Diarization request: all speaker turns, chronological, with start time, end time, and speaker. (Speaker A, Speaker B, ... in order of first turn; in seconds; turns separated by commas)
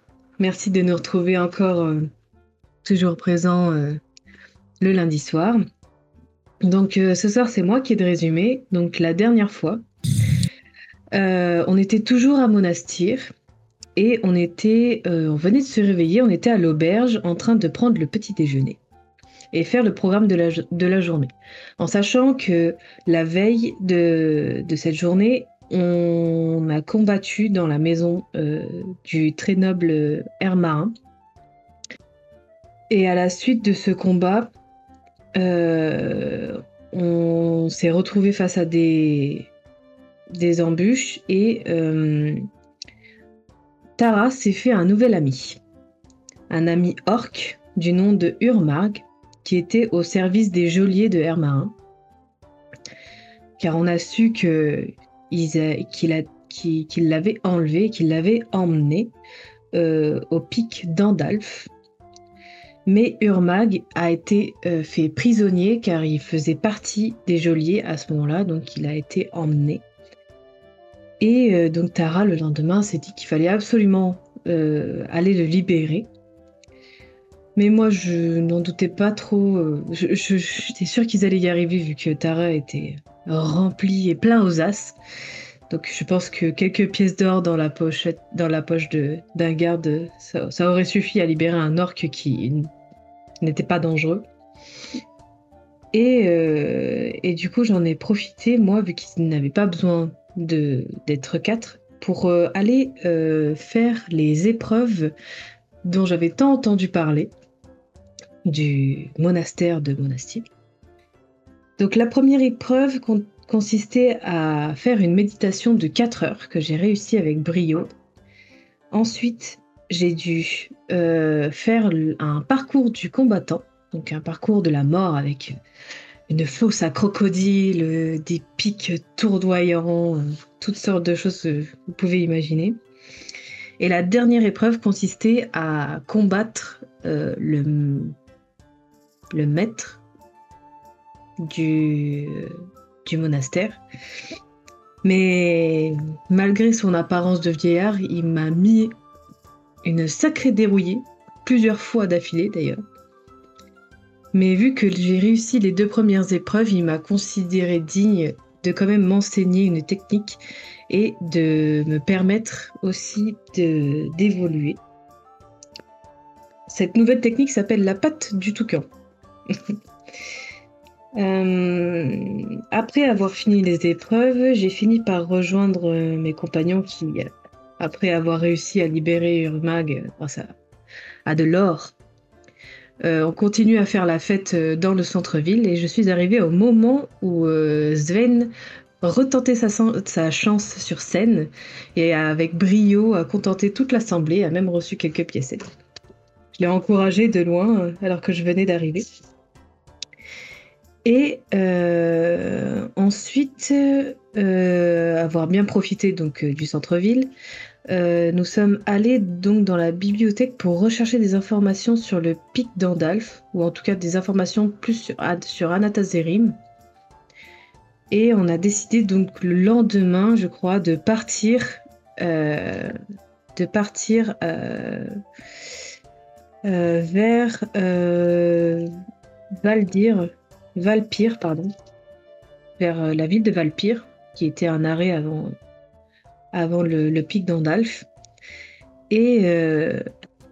Speaker A: 0.4-2.1, Speaker A: 2.8-4.0, Speaker A: 4.8-5.6, Speaker A: 6.6-9.8, Speaker A: 11.1-13.3, Speaker A: 14.0-18.8, Speaker A: 19.5-30.9, Speaker A: 32.9-34.5, Speaker A: 35.4-39.5, Speaker A: 40.3-42.4, Speaker A: 44.0-45.6, Speaker A: 46.5-51.7, Speaker A: 53.6-59.1, Speaker A: 59.7-61.7, Speaker A: 62.9-69.8, Speaker A: 71.2-76.1, Speaker A: 77.6-85.0, Speaker A: 85.7-92.7, Speaker A: 93.4-94.2, Speaker A: 95.9-105.1, Speaker A: 105.8-107.3, Speaker A: 108.5-110.5, Speaker A: 111.8-117.9, Speaker A: 118.9-125.5, Speaker A: 126.3-132.8, Speaker A: 133.8-138.2, Speaker A: 139.3-140.0, Speaker A: 141.4-142.5, Speaker A: 143.1-143.8, Speaker A: 145.0-148.9, Speaker A: 149.8-152.8, Speaker A: 154.3-164.8, Speaker A: 166.7-168.9, Speaker A: 171.2-180.5, Speaker A: 181.3-181.9, Speaker A: 183.0-195.6, Speaker A: 196.6-199.1, Speaker A: 201.1-207.3, Speaker A: 207.9-216.6, Speaker A: 218.1-222.9, Speaker A: 223.6-225.1, Speaker A: 226.7-228.9, Speaker A: 229.5-231.7, Speaker A: 232.8-235.6, Speaker A: 236.5-238.1, Speaker A: 239.1-240.0